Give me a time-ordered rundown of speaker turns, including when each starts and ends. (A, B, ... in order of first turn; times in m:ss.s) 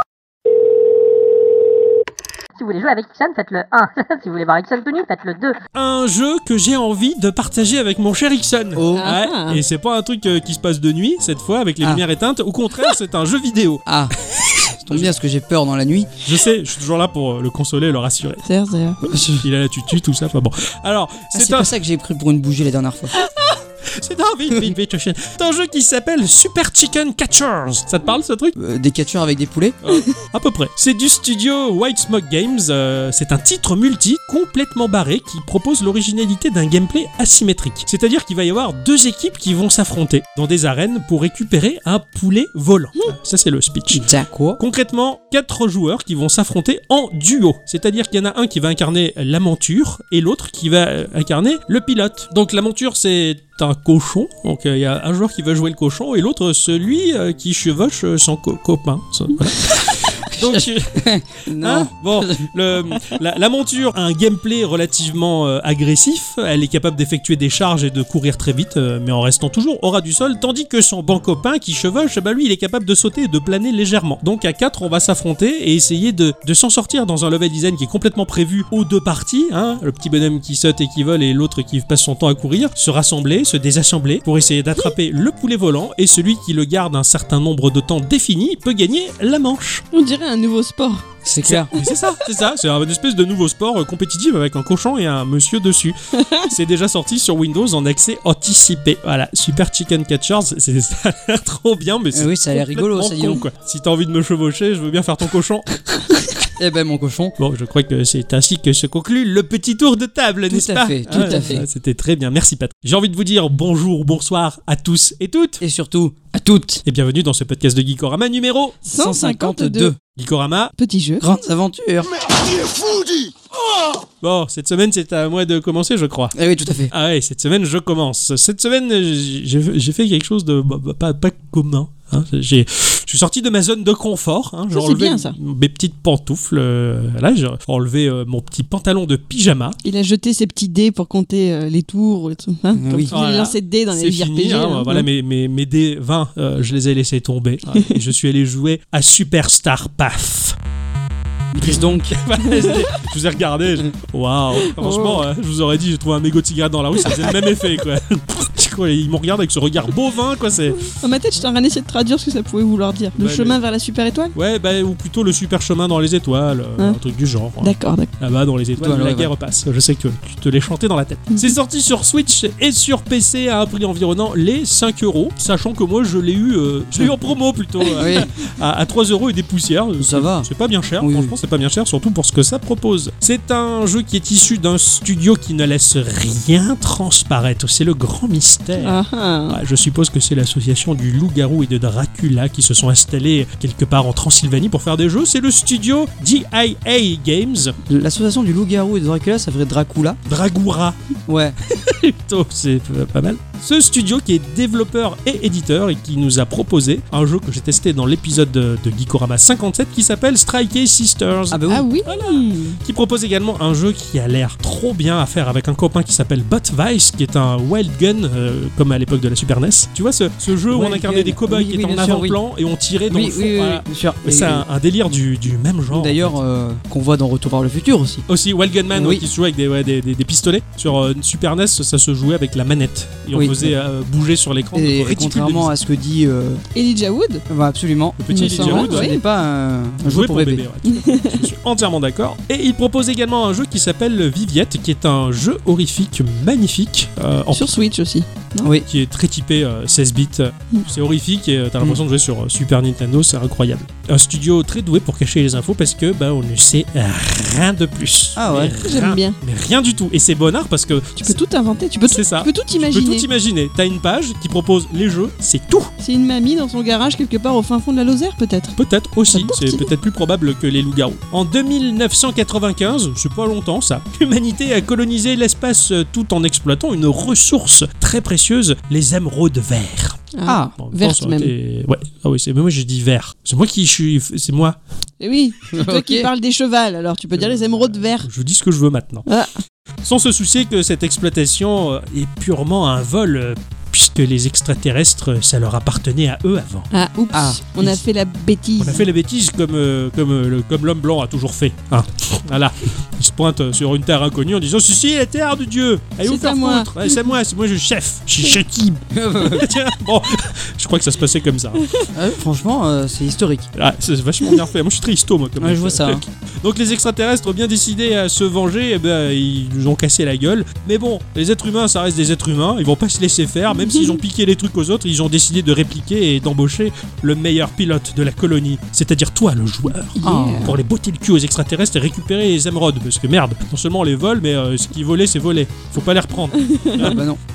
0:02.5-0:05.6 A
0:05.7-0:13.8 B
0:08.7-0:09.1 C
0:09.0-0:09.6 D
0:13.9-0:16.1 C
0:16.2-0:18.4 B
0:18.4-0:19.1 D
0:19.0-0:19.5 C
0:19.4-0:21.7 B
0:21.3-0:23.1 C
0:23.9-0:28.5 B
0:28.6-0:29.8 C
0:29.8-0:44.0 B
0:43.9-0:44.6 C
0:44.6-1:01.0 B
1:00.3-1:02.5 C
1:01.6-1:29.8 B
1:29.9-1:31.0 D
1:31.2-1:31.7 C
1:31.4-1:45.8 B
1:36.2-1:36.5 D
1:42.1-1:43.4 C
1:46.5-1:47.3 C
1:47.4-1:55.6 B
1:50.5-1:51.7 C
1:51.1-1:51.4 D
1:55.6-1:56.8 C
1:56.8-1:58.8 B
1:58.8-1:59.9 D
1:58.9-2:00.0 C
2:00.2-2:00.7 B
2:00.8-2:01.2 D
2:01.2-2:03.3 C
2:04.2-2:06.4 B
2:06.3-2:06.9 C
2:06.9-2:19.8 B
2:14.7-2:15.4 D
2:19.8-2:25.0 D
2:22.7-2:23.1 C
2:23.1-2:30.6 B
2:31.5-2:32.2 C
2:31.6-2:40.9 B
2:34.6-2:35.2 D
2:40.8-2:44.3 D
2:43.2-2:43.6 B
2:44.3-3:17.8 B
2:47.6-2:48.1 D
2:48.8-2:49.3 C
2:57.9-2:58.3 C
3:00.0-3:00.5 C
3:01.0-3:01.4 C
3:08.8-3:09.6 D
3:17.8-3:20.2 C
3:20.2-3:21.0 B
3:21.3-3:21.6 C
3:21.6-3:46.4 B
3:31.5-3:31.9 C
3:31.7-3:32.8 D
3:40.7-3:42.4 C
3:43.1-3:44.6 C
3:45.9-3:48.2 C
3:48.3-3:55.7 B
3:48.9-3:49.2 C
3:53.3-3:53.7 C
3:54.7-3:56.6 C
3:56.7-3:57.4 D
3:57.5-4:00.6 C
3:58.2-3:59.1 B
3:58.3-3:59.2 D
4:00.0-4:07.7 B
4:00.8-4:01.4 D
4:07.5-4:08.7 D
4:08.9-4:21.4 B
4:18.4-4:18.8 C
4:18.8-4:19.4 D
4:21.2-4:23.3 D
4:22.1-4:25.9 B
4:26.0-4:28.8 D
4:28.8-4:44.8 B
4:29.3-4:29.9 D
4:40.3-4:41.5 D
4:40.4-4:40.7 C
4:45.2-4:48.3 D
4:45.7-4:46.3 C
4:47.4-4:49.2 B
4:49.2-4:49.6 D
4:50.0-4:56.9 B
4:56.9-4:59.0 D
4:57.3-4:57.6 C
4:58.8-5:11.9 B
5:06.2-5:06.9 D
5:09.1-5:09.7 C
5:12.1-5:13.7 C
5:13.7-5:37.2 B
5:15.6-5:16.2 C
5:23.7-5:24.2 D
5:30.2-5:30.7 D
5:30.2-5:30.8 C
5:36.6-5:37.1 D
5:37.0-5:37.4 C